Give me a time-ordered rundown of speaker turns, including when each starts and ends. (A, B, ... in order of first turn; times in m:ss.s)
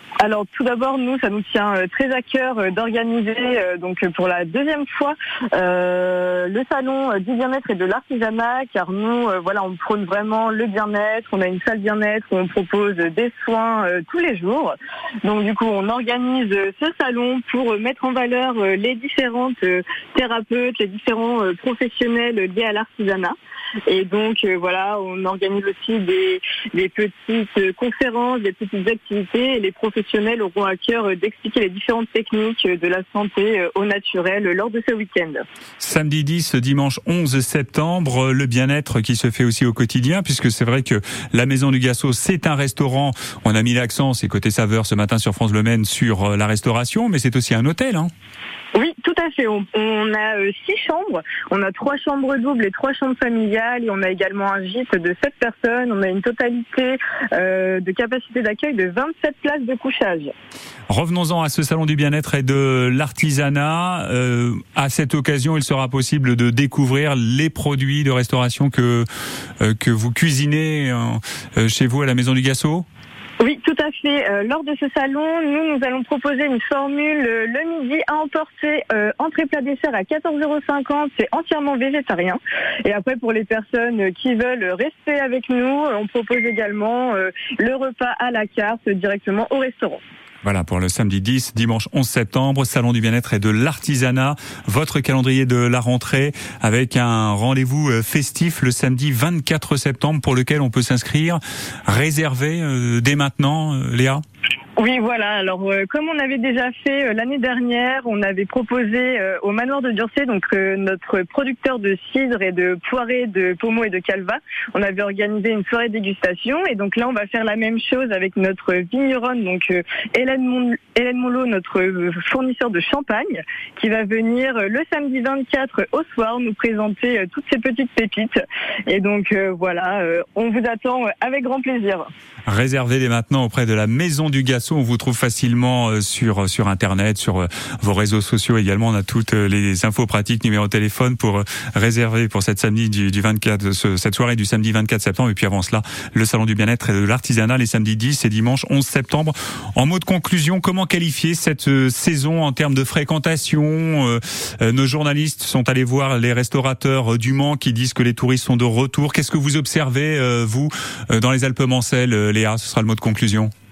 0:00.2-0:14.7 A
0:15.2-0:23.3 A
0:23.9-0:35.4 A
0:35.8-0:48.1 B
0:48.7-1:00.3 A
1:00.9-1:09.1 B
1:09.6-1:12.9 B
1:13.4-1:30.0 A
1:30.4-1:44.2 B
1:44.8-2:12.0 A
2:12.5-2:43.5 B